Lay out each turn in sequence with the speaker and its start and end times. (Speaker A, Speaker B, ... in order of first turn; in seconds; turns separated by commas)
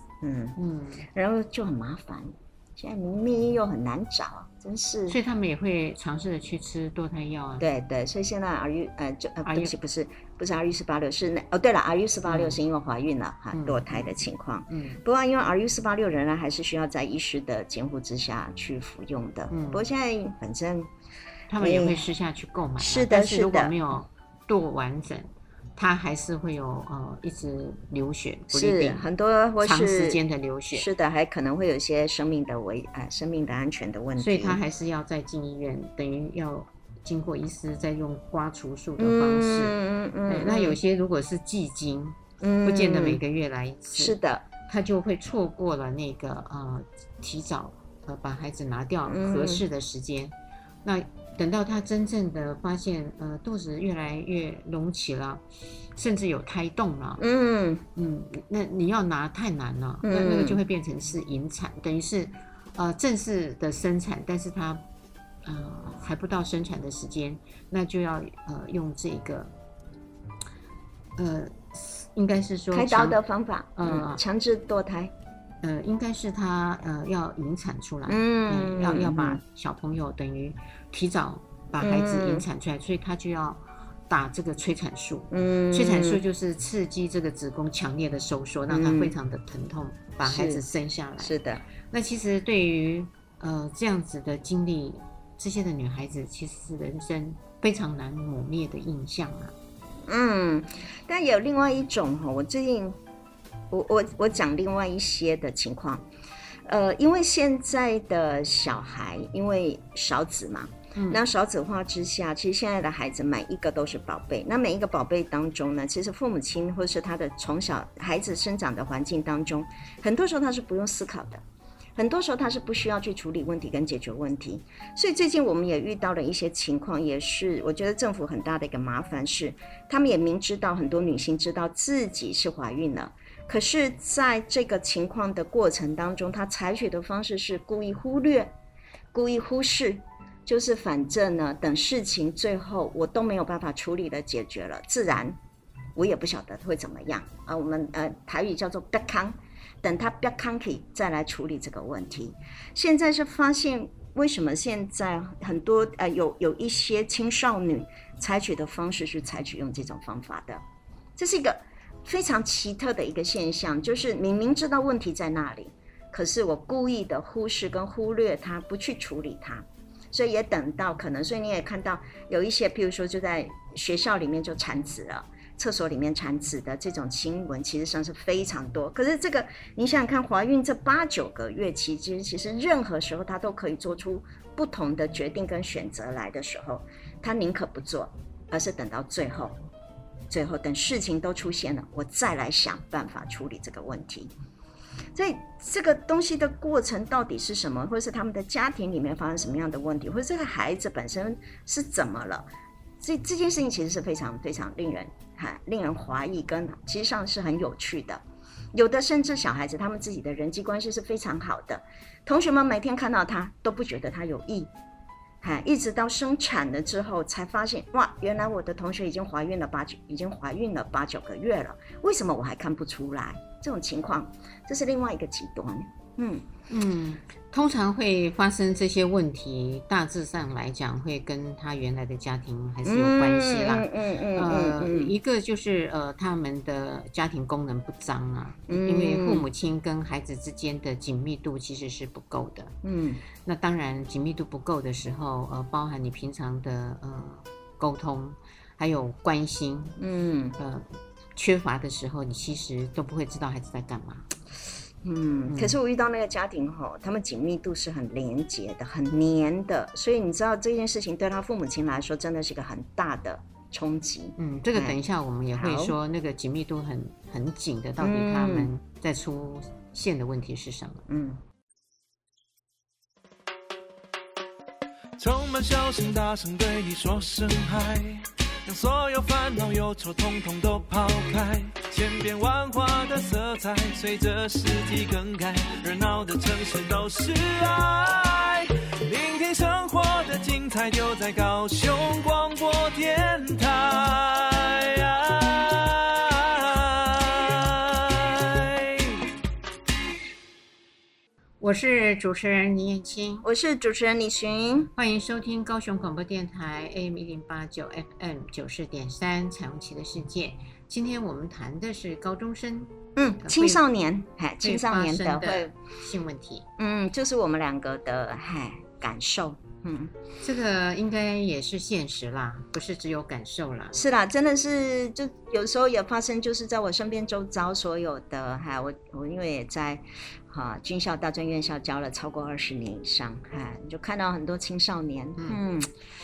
Speaker A: 0.2-0.6, Speaker B: 0.6-1.1, Speaker A: 1.1-5.2, Speaker B: 5.1-7.7, Speaker A: 7.6-20.9, Speaker B: 9.4-9.7, Speaker B: 12.3-12.6, Speaker B: 13.5-14.1, Speaker B: 14.7-15.0, Speaker B: 19.5-19.8, Speaker B: 21.5-29.1, Speaker A: 21.6-22.1, Speaker A: 22.8-23.7, Speaker A: 28.5-30.2, Speaker B: 29.6-30.9, Speaker A: 30.7-34.6, Speaker B: 34.2-55.4, Speaker A: 39.0-40.8, Speaker A: 42.4-43.2, Speaker A: 43.9-44.5, Speaker A: 49.1-49.6, Speaker B: 56.0-57.2, Speaker A: 57.2-57.8, Speaker B: 58.0-64.8, Speaker A: 60.0-60.6, Speaker B: 65.5-69.5, Speaker B: 71.2-73.2, Speaker A: 72.7-75.1, Speaker B: 73.8-74.2, Speaker B: 75.6-91.4, Speaker A: 78.1-79.4, Speaker A: 81.8-82.5, Speaker A: 85.3-86.2, Speaker A: 88.7-89.2, Speaker A: 90.2-90.6, Speaker A: 91.2-91.6, Speaker B: 91.9-99.5, Speaker A: 100.1-103.0, Speaker A: 103.7-106.1, Speaker A: 106.7-121.4, Speaker B: 111.0-111.2, Speaker A: 122.0-138.5, Speaker A: 139.1-145.4, Speaker A: 146.0-160.6, Speaker A: 161.2-189.6, Speaker A: 190.3-194.3, Speaker A: 195.1-202.5, Speaker A: 203.0-208.2, Speaker A: 208.7-214.7, Speaker A: 215.4-226.5, Speaker B: 226.7-242.8, Speaker A: 232.8-235.1, Speaker A: 238.7-239.5, Speaker A: 242.8-243.2, Speaker B: 243.4-250.0, Speaker A: 250.0-250.6, Speaker B: 250.6-254.3, Speaker A: 255.0-265.0, Speaker B: 255.5-255.8, Speaker B: 264.4-271.1, Speaker A: 265.5-266.0, Speaker A: 268.0-268.7, Speaker A: 271.1-271.4, Speaker C: 275.2-299.2, Speaker B: 301.6-303.5, Speaker A: 303.4-304.9, Speaker B: 305.0-313.8, Speaker A: 313.2-315.7, Speaker B: 314.6-316.7, Speaker A: 316.8-320.1, Speaker B: 320.4-324.0, Speaker A: 323.9-335.9